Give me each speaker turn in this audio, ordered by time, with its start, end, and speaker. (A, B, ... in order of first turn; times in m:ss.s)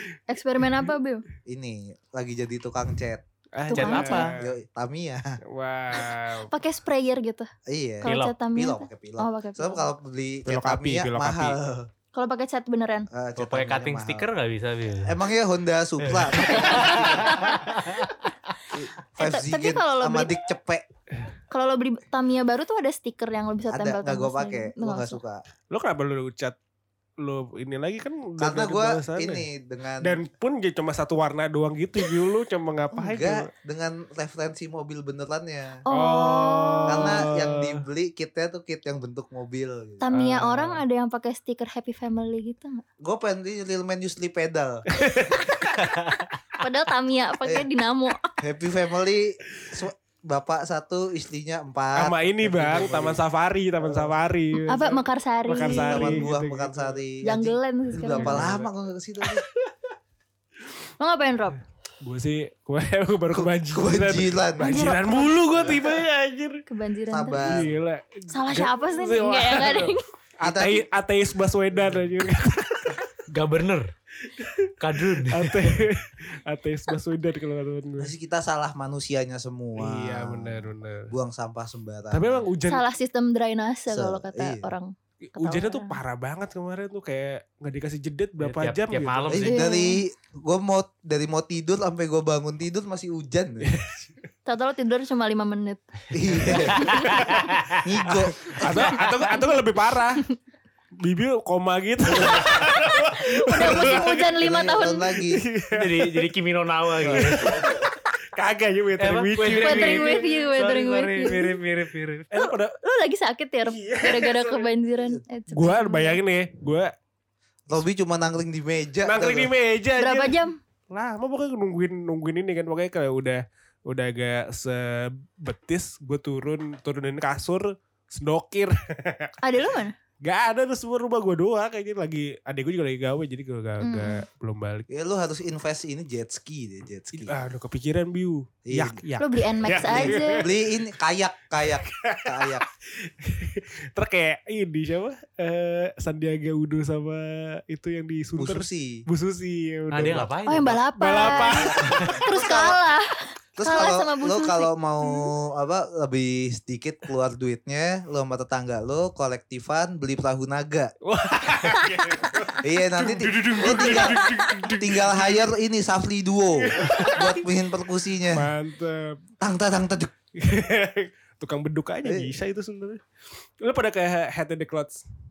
0:00.3-0:01.2 A
0:01.5-0:03.2 B
0:03.5-0:04.5 C
0:03.7-0:04.3 A
0:03.7-0:04.3 D
0:04.0-0:05.4 B
0:05.5-0:06.5 C
0:06.5-0:07.5 A
0:07.7-0:11.9 B
0:08.0-0:09.8 A
0:08.0-0:08.3 D
0:10.4-0:11.6 C
0:12.1-0:13.1 A
0:13.1-0:14.3 B
0:13.4-0:15.2 D
0:15.0-0:17.3 B
0:16.0-0:18.1 D
0:16.6-0:17.6 A
0:18.7-0:20.8 B
0:19.2-0:20.4 A
0:21.5-0:25.2 A
0:23.7-0:25.4 B
0:25.7-0:26.6 C
0:27.2-0:29.5 C
0:28.4-0:30.2 B
0:30.0-0:33.5 C
0:32.9-0:35.8 B
0:35.8-0:37.1 A
0:35.9-0:37.8 C
0:36.9-0:40.0 B
0:40.0-0:42.8 A
0:40.1-0:40.8 C
0:43.0-0:44.8 B
0:45.0-0:45.4 C
0:46.6-0:48.4 A
0:48.4-0:53.2 B
0:51.9-0:57.0 C
0:53.8-0:54.1 B
0:54.7-0:56.3 A
0:55.5-0:59.4 B
0:57.2-0:58.5 A
0:58.2-0:58.7 C
0:59.2-0:59.7 C
1:01.0-1:01.6 A
1:02.0-1:06.6 C
1:03.3-1:04.9 B
1:04.6-1:05.3 A
1:06.7-1:07.5 A
1:07.1-1:07.7 B
1:07.4-1:13.1 C
1:08.3-1:10.0 A
1:10.4-1:10.8 B
1:13.3-1:13.9 D
1:14.3-1:18.1 C
1:14.8-1:15.8 D
1:18.0-1:22.5 B
1:19.8-1:21.1 C
1:22.1-1:22.9 C
1:22.7-1:26.0 A
1:23.9-1:24.7 B
1:25.3-1:29.5 C
1:28.4-1:29.7 D
1:29.3-1:33.7 B
1:29.4-1:30.0 A
1:33.6-1:34.2 C
1:34.5-1:35.8 A
1:36.1-1:37.0 B
1:36.6-1:37.4 C
1:36.7-1:37.8 D
1:36.8-1:37.1 A
1:37.8-1:38.5 B
1:38.0-1:40.2 C
1:38.6-1:39.5 D
1:41.0-1:44.4 C
1:42.3-1:45.1 A
1:43.6-1:45.4 B
1:45.3-1:46.2 C
1:45.7-1:47.7 D
1:47.0-1:50.3 C
1:47.0-1:47.9 B
1:49.0-1:52.3 D
1:49.5-1:51.6 A
1:51.2-1:51.5 C
1:52.3-1:52.7 C
1:52.3-1:56.2 A
1:53.6-1:54.7 C
1:55.5-1:56.9 C
1:57.7-1:59.5 B
1:59.0-2:09.4 C
2:00.0-2:00.5 A
2:09.4-2:09.9 A
2:10.2-2:14.9 C
2:13.8-2:14.2 A
2:14.9-2:17.4 B
2:17.1-2:20.5 C
2:18.7-2:19.0 B
2:19.2-2:20.5 A
2:19.8-2:22.6 B
2:21.7-2:30.3 C
2:28.4-2:29.0 B
2:29.9-2:30.8 D
2:30.5-2:34.7 A
2:30.9-2:32.2 C
2:31.2-2:32.8 B
2:33.6-2:40.9 B
2:41.0-2:45.4 C
2:42.6-2:44.2 B
2:44.8-2:48.5 B
2:46.6-2:47.4 C
2:48.3-2:49.2 C
2:49.4-2:50.1 B
2:50.4-2:53.0 C
2:52.0-2:52.3 B
2:53.6-2:55.0 C